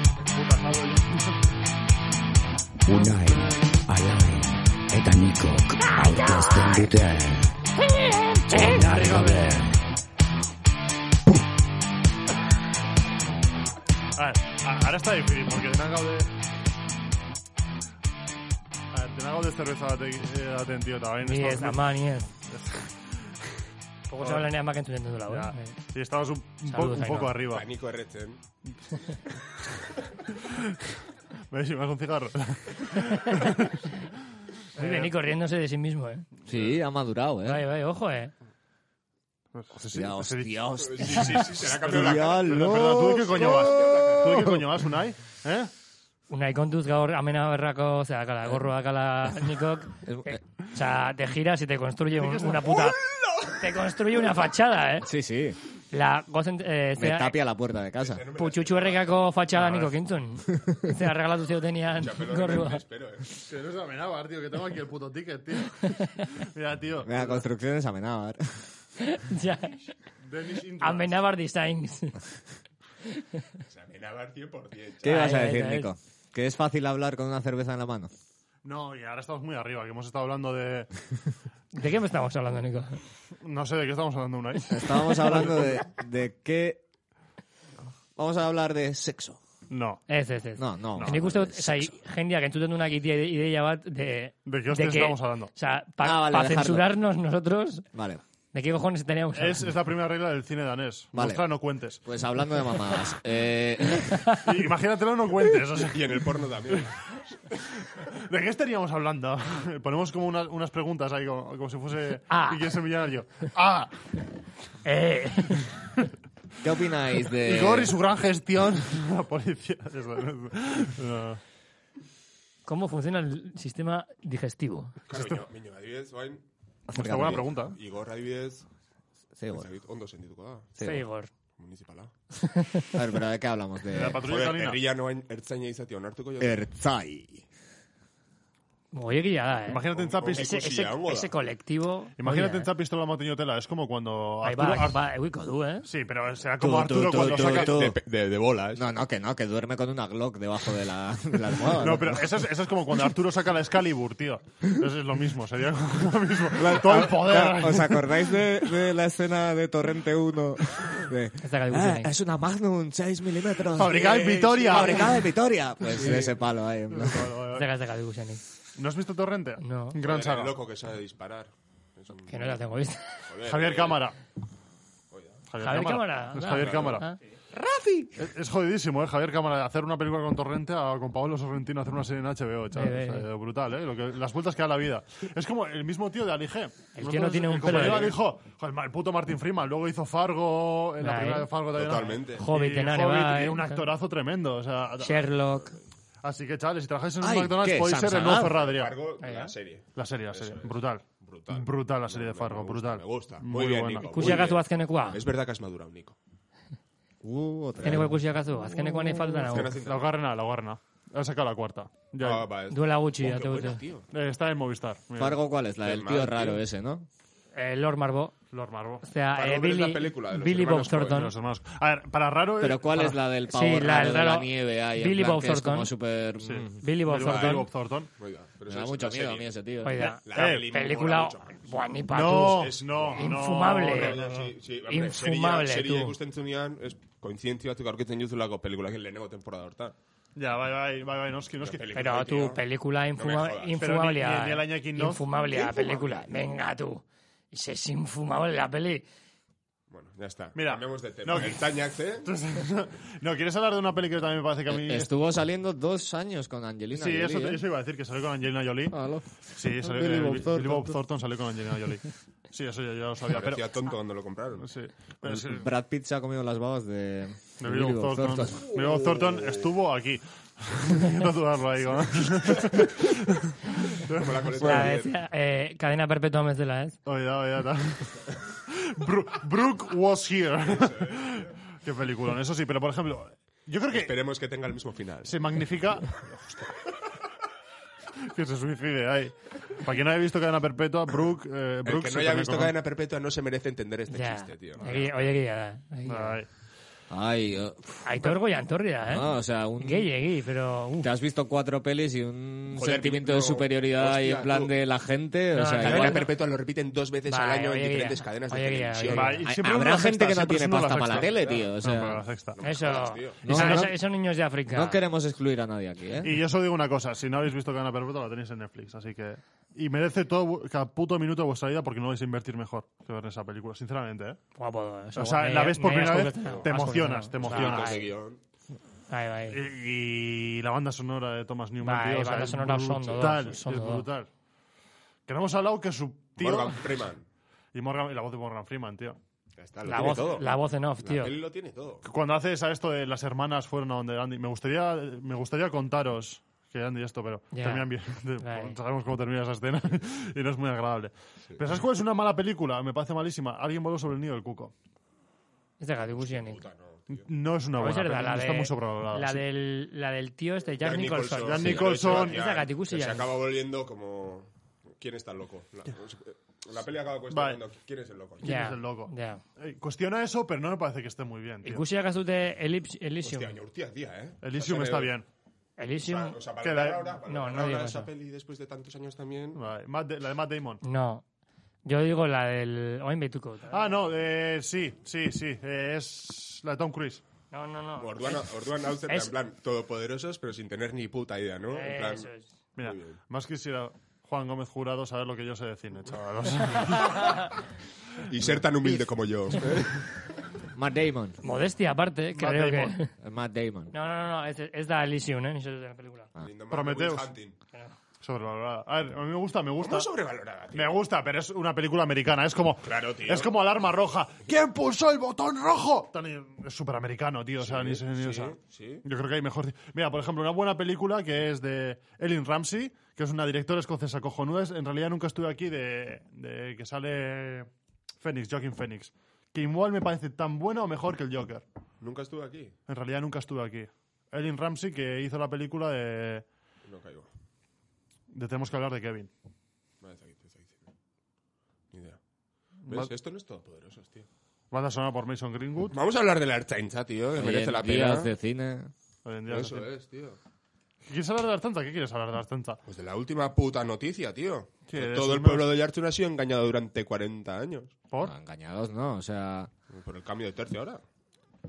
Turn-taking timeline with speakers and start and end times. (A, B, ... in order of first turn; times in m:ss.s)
0:00.3-0:01.4 A
0:02.8-0:07.5 B
0:08.5-0:09.8 B
0:08.8-0:09.3 A
0:14.2-0:16.3 A
0:18.9-0:21.9 A
0:21.2-0:22.3 C
0:22.4-0:23.6 A
0:24.1-0:25.8 C
0:24.2-0:24.5 A
0:25.3-0:27.7 A
0:26.6-0:27.3 C
0:27.4-0:28.4 D
0:30.5-0:33.9 A
0:32.9-0:33.4 C
0:34.8-0:35.1 A
0:34.8-0:36.2 C
0:36.4-0:37.6 E
0:36.5-0:36.8 D
0:37.4-0:38.3 C
0:39.5-0:40.6 A
0:39.8-0:44.6 E
0:40.8-0:44.5 D
0:41.8-0:45.7 A
0:46.3-0:55.1 C
0:50.0-0:50.4 E
0:52.2-0:52.8 A
0:53.0-0:53.7 D
0:55.0-0:55.6 E
0:55.9-0:57.4 C
0:57.0-0:58.2 E
0:58.0-0:59.3 D
0:58.4-1:02.8 C
0:59.6-0:59.9 A
1:00.5-1:00.9 E
1:01.9-1:03.3 D
1:03.4-1:07.4 A
1:07.0-1:08.6 E
1:09.0-1:09.9 C
1:10.2-1:11.1 A
1:10.8-1:12.2 C
1:13.1-1:13.4 C
1:13.7-1:15.3 D
1:15.0-1:18.1 E
1:15.0-1:15.9 C
1:18.6-1:20.9 A
1:21.7-1:23.0 C
1:23.4-1:25.8 A
1:24.7-1:26.8 E
1:28.2-1:29.4 E
1:29.7-1:30.0 A
1:30.1-1:37.8 C
1:30.6-1:31.9 E
1:31.0-1:31.2 A
1:34.4-1:35.5 A
1:36.0-1:36.9 E
1:37.9-1:38.2 E
1:38.5-1:39.6 C
1:39.3-1:42.0 A
1:41.1-1:41.4 E
1:42.0-1:44.4 E
1:44.1-1:44.4 C
1:44.4-1:46.9 A
1:45.8-1:47.6 D
1:47.9-1:53.9 A
1:52.3-1:52.6 C
1:54.8-1:55.7 C
1:56.6-1:57.9 E
1:57.3-2:01.4 A
2:02.6-2:04.9 C
2:05.1-2:06.4 D
2:06.9-2:07.5 E
2:06.9-2:07.8 A
2:07.7-2:08.6 D
2:09.4-2:09.7 E
2:09.5-2:10.7 D
2:10.8-2:11.0 E
2:10.8-2:11.3 C
2:11.6-2:12.1 D
2:12.4-2:13.0 C
2:12.9-2:14.2 E
2:13.9-2:14.8 A
2:14.1-2:16.6 D
2:16.4-2:17.4 E
2:18.9-2:22.7 C
2:19.7-2:20.6 A
2:19.9-2:21.3 D
2:22.2-2:25.0 A
2:24.4-2:25.9 C
2:25.8-2:27.8 A
2:26.6-2:28.0 E
2:27.1-2:28.9 D
2:28.7-2:32.4 E
2:31.7-2:38.6 A
2:36.5-2:47.3 E
2:41.4-2:42.1 C
2:43.7-2:45.3 A
2:43.9-2:45.1 D
2:45.8-2:47.7 A
2:47.5-2:48.4 C
2:48.8-2:50.5 A
2:49.6-2:50.0 C
2:50.0-2:52.6 D
2:52.2-2:53.3 C
2:53.3-2:54.0 D
2:53.4-2:54.2 A
2:55.1-2:55.4 D
2:55.5-2:57.1 A
2:55.6-2:57.2 C
2:56.5-2:57.1 D
2:57.5-2:58.1 E
2:58.2-3:15.3 A
3:02.7-3:03.2 C
3:07.0-3:08.2 C
3:11.0-3:11.5 C
3:11.7-3:12.5 D
3:12.4-3:13.8 C
3:15.0-3:15.8 C
3:16.2-3:19.0 A
3:17.2-3:18.5 E
3:18.3-3:26.2 D
3:19.2-3:19.5 C
3:19.9-3:24.5 A
3:24.0-3:25.2 C
3:27.2-3:29.4 E
3:27.8-3:28.1 D
3:27.8-3:29.8 C
3:29.4-3:30.1 D
3:29.8-3:32.5 A
3:32.2-3:34.1 D
3:32.7-3:33.8 C
3:34.1-3:35.4 A
3:35.2-3:37.0 E
3:35.8-3:36.6 D
3:37.5-3:38.3 C
3:38.5-3:39.1 A
3:39.0-3:41.3 C
3:39.3-3:41.3 D
3:41.1-3:43.2 A
3:42.6-3:46.8 E
3:43.5-3:45.9 C
3:46.4-3:48.1 A
3:46.8-3:47.7 C
3:47.2-3:49.5 D
3:48.7-3:50.0 E
3:49.8-3:54.2 C
3:50.0-3:51.7 D
3:50.3-3:50.7 A
3:52.1-3:54.5 A
3:52.3-3:59.9 D
3:54.9-3:56.2 C
4:00.4-4:01.8 A
4:01.6-4:02.6 D
4:01.9-4:09.0 C
4:03.2-4:03.8 D
4:03.8-4:05.3 A
4:05.5-4:06.3 D
4:09.9-4:12.3 D
4:10.5-4:11.7 A
4:12.2-4:15.1 A
4:14.7-4:17.6 E
4:16.9-4:19.0 A
4:18.9-4:20.9 E
4:19.5-4:23.7 A
4:23.3-4:24.7 D
4:24.6-4:25.7 A
4:25.2-4:28.6 E
4:27.6-4:34.7 A
4:28.6-4:29.7 D
4:33.9-4:35.1 D
4:34.6-4:37.0 C
4:37.0-4:44.1 A
4:40.6-4:41.5 D
4:43.9-4:45.3 D
4:45.2-4:46.9 A
4:48.2-4:52.7 A
4:51.8-4:55.3 D
4:54.1-4:56.4 C
4:56.1-4:56.5 A
4:57.1-4:58.3 E
4:58.0-5:01.1 C
4:59.1-5:00.1 E
5:01.0-5:06.3 E
5:02.7-5:04.7 D
5:05.5-5:06.3 C
5:05.8-5:09.4 D
5:07.3-5:09.4 C
5:09.1-5:12.6 A
5:09.4-5:12.2 E
5:10.9-5:11.7 D
5:12.5-5:13.7 D
5:12.6-5:15.0 C
5:13.4-5:13.9 E
5:14.7-5:16.3 E
5:16.2-5:24.4 A
5:24.6-5:28.1 C
5:25.2-5:28.0 A
5:26.4-5:26.7 D
5:27.4-5:28.4 D
5:29.1-5:29.6 C
5:29.5-5:34.3 A
5:31.8-5:34.0 C
5:35.3-5:37.0 A
5:36.4-5:37.2 D
5:37.7-5:39.2 A
5:39.6-5:40.5 D
5:39.8-5:41.3 C
5:39.9-5:40.3 A
5:41.0-5:42.0 D
5:42.0-5:54.7 A
5:47.5-5:47.9 C
5:48.4-5:48.8 C
5:55.8-5:56.6 C
5:56.2-5:57.3 D
5:57.1-5:59.4 A
5:57.8-6:03.2 C
6:00.8-6:08.5 D
6:01.4-6:02.4 A
6:07.3-6:07.6 A
6:08.4-6:11.8 A
6:08.4-6:09.4 C
6:11.6-6:13.6 C
6:13.2-6:15.1 D
6:14.4-6:15.2 A
6:15.8-6:16.4 C
6:16.0-6:19.6 D
6:16.6-6:17.1 A
6:17.2-6:18.1 C
6:19.5-6:20.8 A
6:20.8-6:21.2 C
6:21.8-6:23.9 C
6:23.7-6:27.2 A
6:27.5-6:28.5 C
6:28.0-6:33.2 D
6:29.0-6:29.3 C
6:31.7-6:32.5 C
6:32.8-6:37.5 A
6:36.8-6:37.5 C
6:38.2-6:40.1 D
6:40.7-6:41.4 E
6:41.4-6:43.1 C
6:42.4-6:43.0 A
6:43.2-6:43.9 E
6:43.9-6:46.3 C
6:46.4-6:47.6 D
6:46.7-6:47.3 A
6:48.2-6:50.1 A
6:49.8-6:51.0 D
6:50.7-7:07.7 A
6:52.8-6:53.5 D
6:57.6-6:59.0 D
7:08.2-7:11.6 A
7:12.0-7:12.7 D
7:12.9-7:16.4 A
7:16.8-7:17.3 D
7:18.3-7:19.3 A
7:20.0-7:20.9 D
7:21.9-7:22.2 D
7:22.8-7:23.1 A
7:22.9-7:24.3 D
7:24.7-7:26.0 A
7:25.9-7:28.3 D
7:27.3-7:28.9 E
7:29.2-7:29.9 A
7:29.5-7:30.4 D
7:31.0-7:32.8 A
7:32.8-7:37.9 D
7:34.9-7:35.8 A
7:38.2-7:39.7 E
7:39.9-7:41.0 D